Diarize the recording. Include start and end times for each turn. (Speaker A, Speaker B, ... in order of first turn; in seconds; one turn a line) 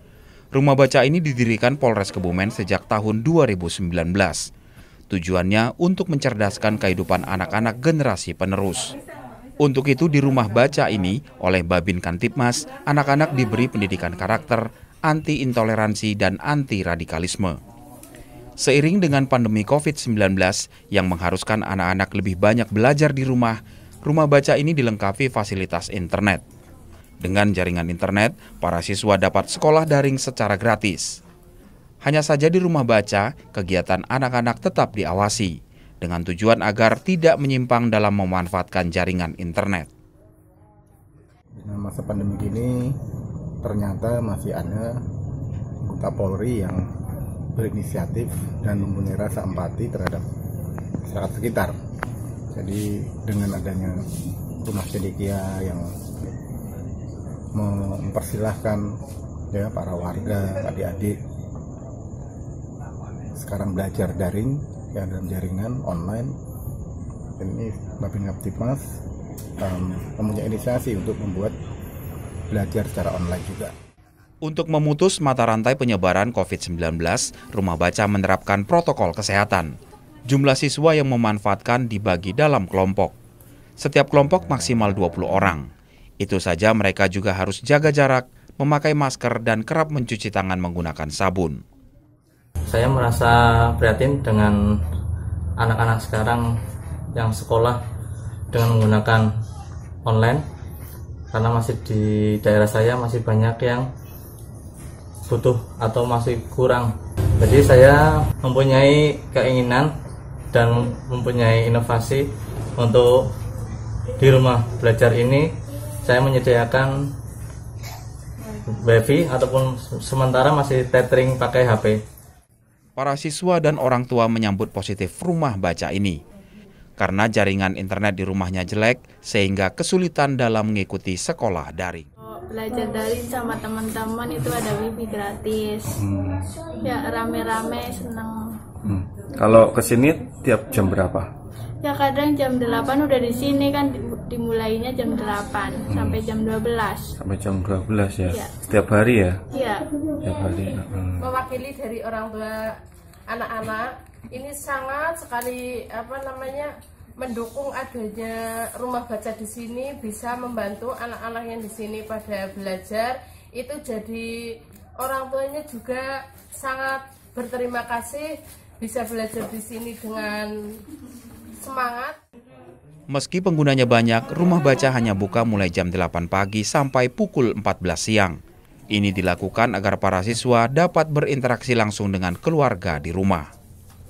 Speaker A: 0.5-4.5
Speaker A: 5.1-8.9
Speaker A: 9.6-17.6
Speaker A: 18.6-26.4
Speaker A: 27.2-31.2
Speaker A: 32.0-39.9
Speaker B: 41.6-42.9
Speaker B: 43.6-44.9
Speaker B: 45.8-46.8
Speaker B: 47.6-50.2
Speaker B: 51.0-51.7
Speaker B: 52.5-54.0
Speaker B: 54.6-55.9
Speaker B: 57.5-58.8
Speaker B: 59.5-61.1
Speaker B: 63.4-66.3
Speaker B: 67.4-68.8
Speaker B: 69.6-71.5
Speaker B: 72.5-73.7
Speaker A: 74.4-79.7
Speaker A: 80.3-83.1
Speaker A: 83.8-85.7
Speaker A: 86.2-91.6
Speaker C: 92.7-94.6
Speaker C: 95.6-96.5
Speaker C: 97.1-97.8
Speaker C: 98.5-99.3
Speaker C: 100.0-100.4
Speaker C: 101.3-103.9
Speaker C: 105.3-109.9
Speaker C: 110.5-113.3
Speaker C: 114.2-115.5
Speaker C: 116.0-117.0
Speaker C: 118.7-122.0
Speaker A: 123.0-126.2
Speaker A: 127.0-132.1
Speaker D: 132.2-136.0
Speaker E: 135.9-136.6
Speaker D: 136.7-138.6
Speaker E: 138.8-141.3
Speaker D: 141.8-147.1
Speaker E: 145.9-146.2
Speaker E: 147.2-149.4
Speaker D: 149.5-149.9
Speaker E: 150.2-151.3
Speaker F: 151.2-152.8
Speaker F: 153.3-170.5
Speaker F: 171.6-172.2
Speaker A: 173.1-178.4
Speaker A: 178.9-183.5